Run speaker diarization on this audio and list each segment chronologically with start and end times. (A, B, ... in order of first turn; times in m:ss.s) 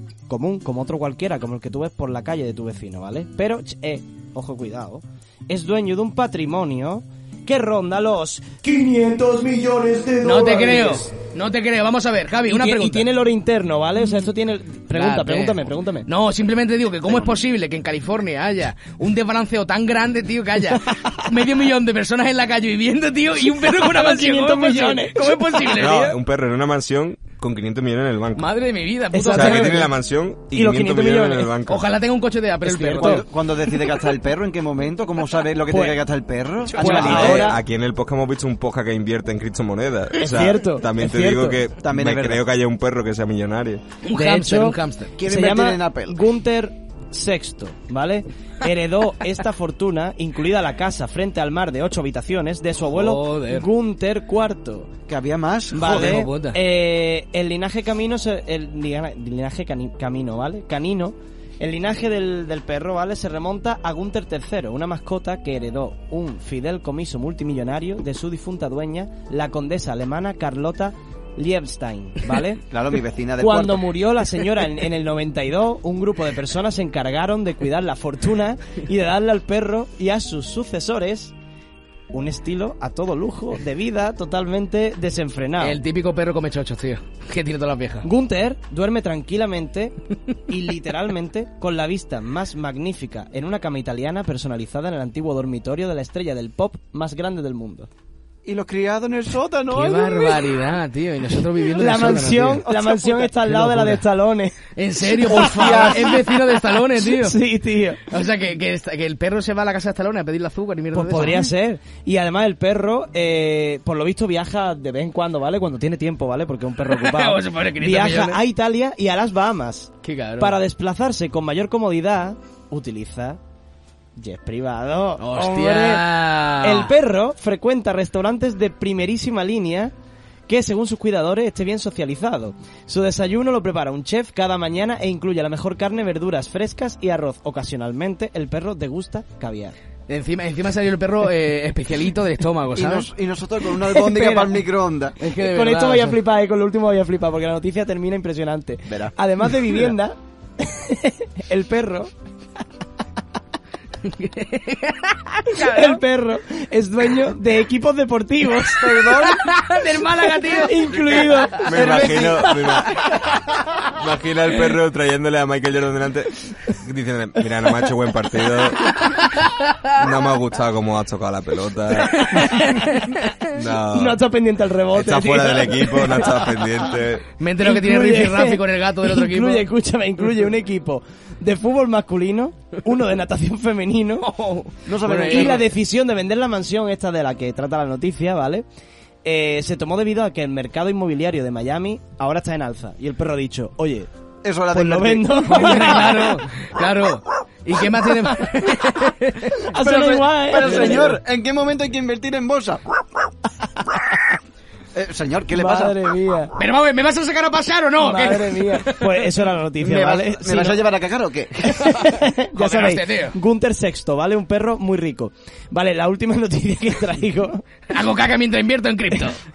0:00.3-0:11.1 A
0:10.2-0:13.0 B
0:12.5-0:16.1 A
0:14.9-0:26.2 B
0:23.5-0:25.8 A
0:25.7-0:28.5 C
0:28.4-0:29.8 B
0:29.1-0:29.9 A
0:29.3-0:31.8 C
0:30.5-0:31.5 A
0:31.6-0:33.2 B
0:32.6-0:33.2 A
0:32.8-0:37.5 D
0:35.7-0:36.0 A
0:36.6-0:37.4 B
0:36.7-0:37.6 A
0:36.8-0:43.8 C
0:40.2-0:41.6 A
0:41.8-0:42.4 D
0:44.0-0:45.1 B
0:44.1-0:54.9 A
0:45.2-0:46.2 D
0:52.9-0:53.7 B
0:55.1-0:56.3 D
0:55.7-1:12.6 A
0:55.8-0:56.6 B
1:12.7-1:13.9 D
1:13.4-1:21.3 A
1:22.1-1:25.8 A
1:25.6-1:28.1 B
1:28.0-1:29.9 A
1:30.5-1:37.9 A
1:38.4-1:40.5 D
1:39.7-1:44.0 B
1:41.8-1:48.1 A
1:44.8-1:47.4 B
1:45.1-1:46.2 D
1:48.1-1:51.4 B
1:50.9-2:03.4 A
1:56.9-1:58.4 B
2:00.0-2:00.6 B
2:04.2-2:09.9 A
2:05.2-2:06.9 B
2:10.5-2:19.8 A
2:20.1-2:23.1 B
2:22.7-2:25.2 D
2:23.9-2:24.6 A
2:25.2-2:26.2 B
2:25.4-2:32.1 A
2:28.9-2:29.1 D
2:34.0-2:36.0 B
2:35.5-2:39.3 A
2:38.8-2:39.4 D
2:39.1-2:42.5 B
2:40.1-2:42.9 A
2:41.5-2:43.0 C
2:43.9-2:49.0 C
2:49.8-2:52.3 C
2:52.1-2:53.3 B
2:52.3-2:53.0 A
2:53.5-2:54.2 C
2:53.8-2:56.7 A
2:54.9-2:57.2 C
2:57.4-2:59.6 B
2:57.6-3:04.3 A
3:04.2-3:05.6 B
3:04.8-3:05.7 D
3:05.3-3:08.6 A
3:09.2-3:14.1 A
3:14.4-3:16.3 D
3:14.7-3:16.4 A
3:15.4-3:19.7 B
3:19.7-3:21.2 A
3:19.8-3:22.8 D
3:20.7-3:21.0 B
3:24.9-3:25.9 D
3:25.5-3:26.5 A
3:26.6-3:29.1 B
3:28.0-3:30.8 A
3:29.8-3:31.8 D
3:31.6-3:37.6 A
3:32.5-3:33.4 B
3:37.9-3:39.4 B